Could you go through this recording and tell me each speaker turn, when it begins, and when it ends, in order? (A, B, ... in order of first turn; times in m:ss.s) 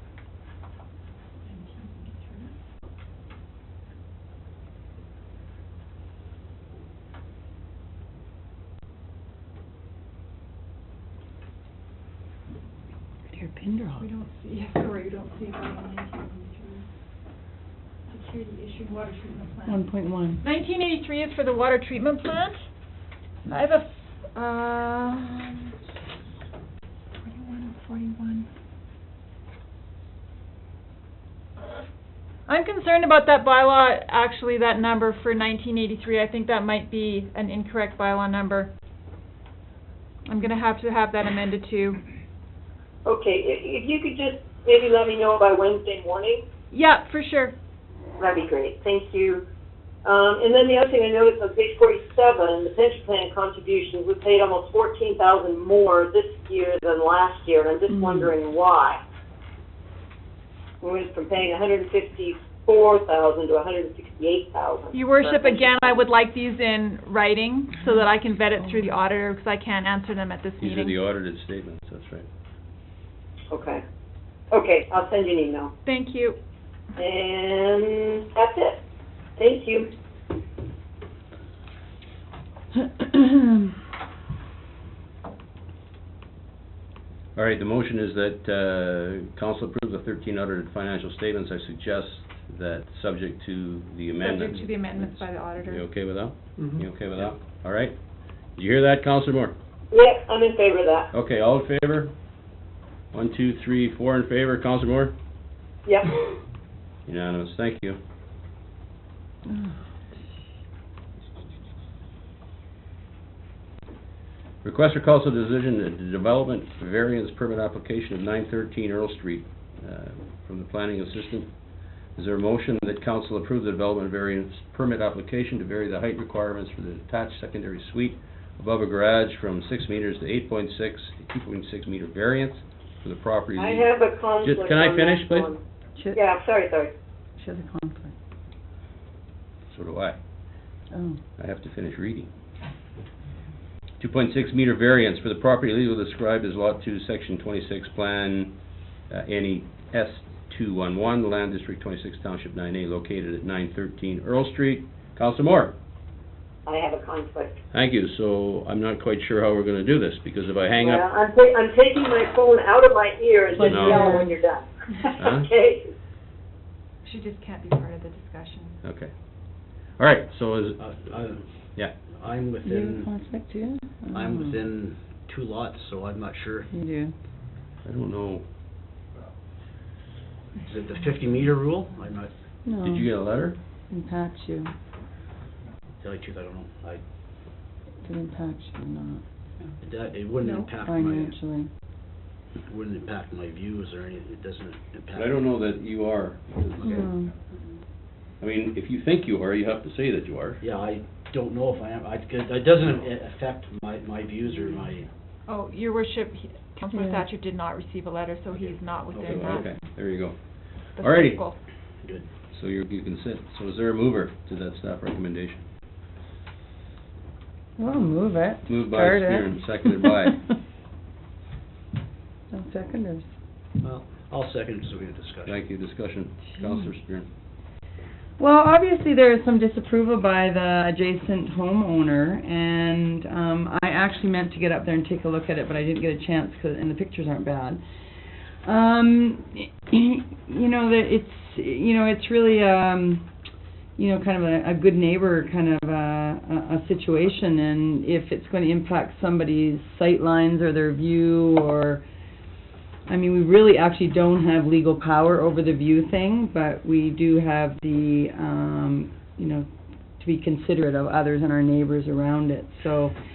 0:01.5-0:02.5 A
0:13.3-0:14.1 B
0:14.0-0:16.9 A
0:18.1-0:19.9 A
0:19.6-0:20.4 B
0:20.4-0:22.6 A
0:23.4-0:25.8 A
0:27.2-0:28.5 A
0:32.5-0:38.7 A
0:40.3-0:42.0 A
0:43.0-0:46.4 C
0:46.7-0:47.5 A
0:48.2-0:49.4 C
0:50.0-0:59.0 C
0:57.9-0:58.3 B
1:00.8-1:06.0 C
1:04.9-1:11.0 A
1:10.6-1:12.3 D
1:13.5-1:13.8 C
1:14.5-1:15.7 C
1:15.8-1:16.4 A
1:17.0-1:18.8 C
1:19.4-1:19.9 C
1:22.9-1:23.5 B
1:27.4-1:38.0 D
1:34.2-1:35.8 A
1:38.6-1:39.6 D
1:39.9-1:41.1 C
1:41.1-1:42.1 D
1:43.1-1:45.2 D
1:45.9-1:46.1 C
1:47.1-1:48.0 D
1:54.6-2:01.5 D
2:02.2-2:13.9 D
2:13.6-2:15.6 C
2:14.4-2:15.5 D
2:16.2-2:16.9 C
2:17.4-2:18.1 B
2:19.7-2:20.2 D
2:20.9-2:21.2 B
2:21.4-2:22.3 D
2:24.0-2:28.6 D
2:29.1-2:35.8 D
2:36.7-2:37.6 C
2:37.7-2:41.1 D
2:40.8-2:45.9 C
2:43.5-2:44.2 D
2:43.6-2:44.4 B
2:45.2-2:45.5 D
2:47.0-2:48.8 A
2:48.8-2:49.1 D
2:50.0-2:50.8 D
2:50.8-2:51.4 E
2:52.2-2:53.1 E
2:52.6-2:54.6 B
2:54.1-2:56.7 E
2:56.7-2:57.2 B
2:57.8-2:58.4 D
3:00.6-3:02.3 E
3:02.7-3:03.1 B
3:02.8-3:03.6 D
3:03.9-3:04.7 B
3:06.0-3:07.0 E
3:08.0-3:09.2 B
3:09.8-3:11.4 E
3:10.4-3:10.7 A
3:10.8-3:11.7 B
3:12.6-3:15.3 E
3:15.1-3:17.1 D
3:16.8-3:17.3 B
3:18.4-3:20.6 D
3:20.6-3:25.1 E
3:25.5-3:29.8 A
3:26.9-3:27.2 B
3:28.7-3:29.5 E
3:29.2-3:30.4 D
3:31.0-3:31.4 D
3:31.0-3:31.6 A
3:32.5-3:35.6 D
3:37.8-3:40.4 B
3:38.7-3:40.4 D
3:42.5-3:43.3 B
3:43.8-3:45.6 E
3:45.5-3:47.3 D
3:46.6-3:46.9 B
3:48.4-3:57.8 B
3:58.6-4:03.3 B
4:04.0-4:12.0 B
4:13.1-4:19.7 B
4:20.2-4:23.1 B